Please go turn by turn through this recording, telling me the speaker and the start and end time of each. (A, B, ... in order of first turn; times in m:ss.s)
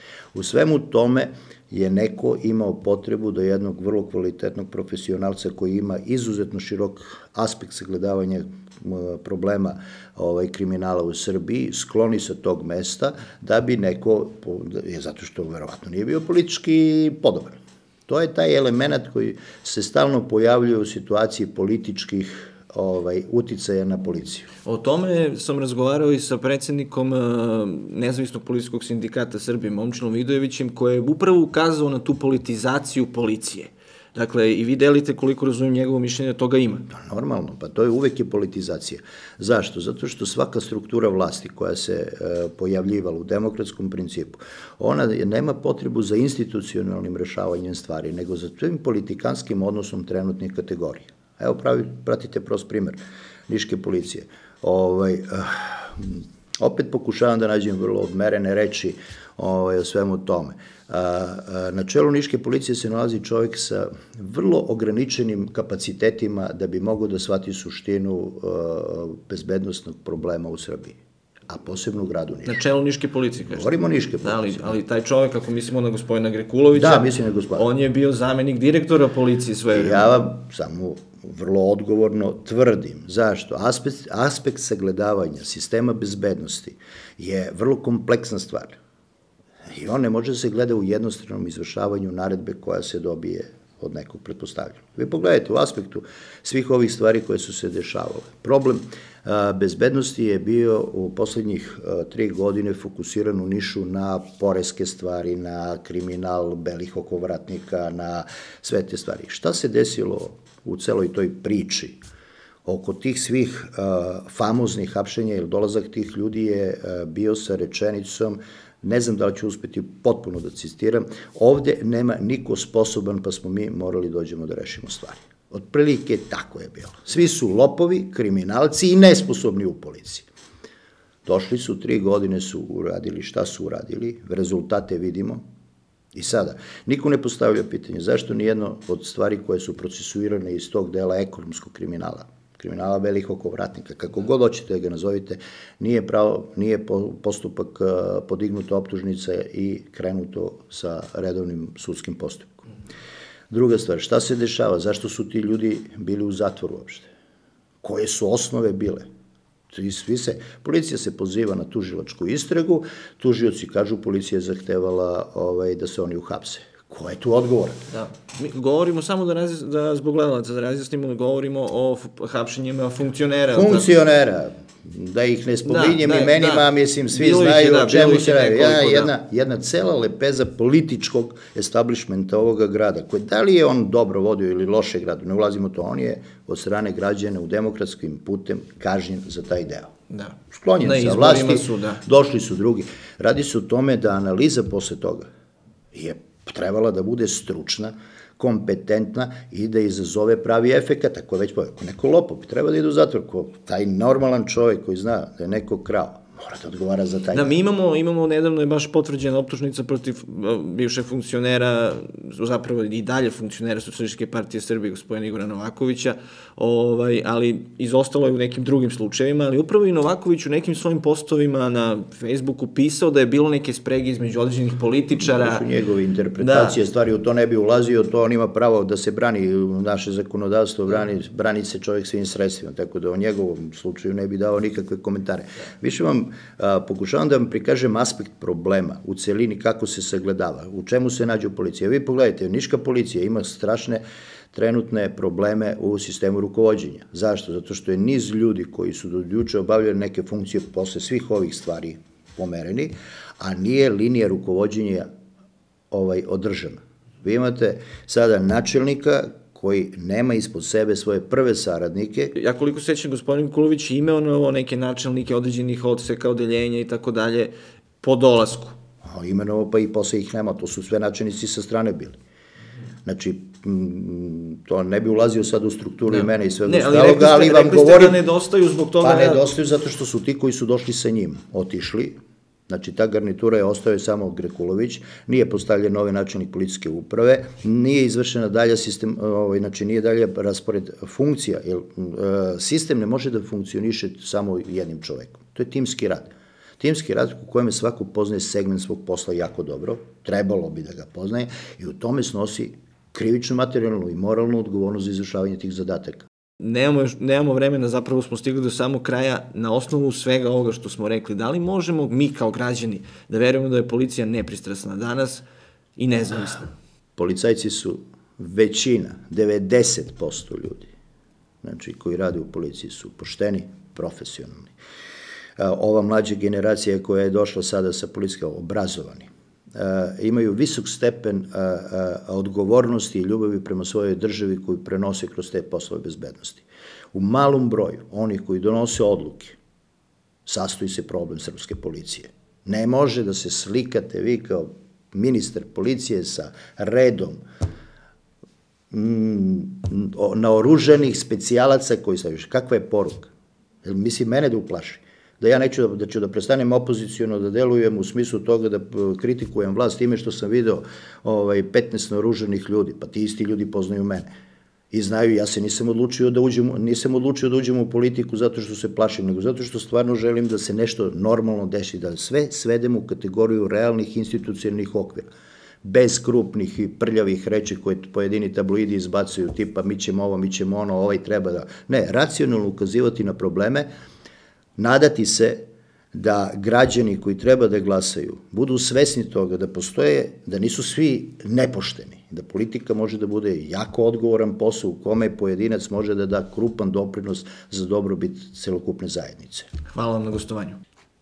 0:00.3-0:17.6 A
0:18.1-0:24.5 A
0:24.6-0:36.9 B
0:36.9-0:53.0 A
0:53.5-1:11.0 A
1:11.5-1:12.6 A
1:12.5-1:20.1 B
1:13.5-1:14.8 A
1:16.7-1:17.7 A
1:19.7-1:28.8 A
1:29.7-1:52.0 A
1:52.7-2:10.3 A
2:11.3-2:15.4 A
2:16.1-2:32.7 A
2:33.5-2:37.1 A
2:37.8-2:39.1 A
2:39.7-2:47.8 A
2:47.9-2:53.9 B
2:53.5-3:09.9 A
2:55.6-2:59.1 B
3:10.1-3:12.0 B
3:10.5-3:15.3 A
3:15.9-3:27.5 A
3:27.3-3:45.6 B
3:45.2-4:15.1 A
3:46.4-3:46.8 B
4:15.9-4:22.3 A
4:22.4-4:28.8 B
4:29.0-4:32.2 A
4:33.0-4:38.2 A
4:36.1-4:39.4 B
4:39.0-4:42.2 A
4:42.7-5:06.3 A
5:06.6-5:15.4 B
5:16.0-5:16.7 B
5:17.2-5:20.9 A
5:21.6-5:24.7 A
5:25.6-5:39.6 A
5:40.5-5:47.4 A
5:48.9-5:53.3 A
5:53.8-6:04.3 A
6:04.9-6:15.3 A
6:15.8-6:23.9 A
6:24.8-6:39.7 A
6:39.9-6:40.8 B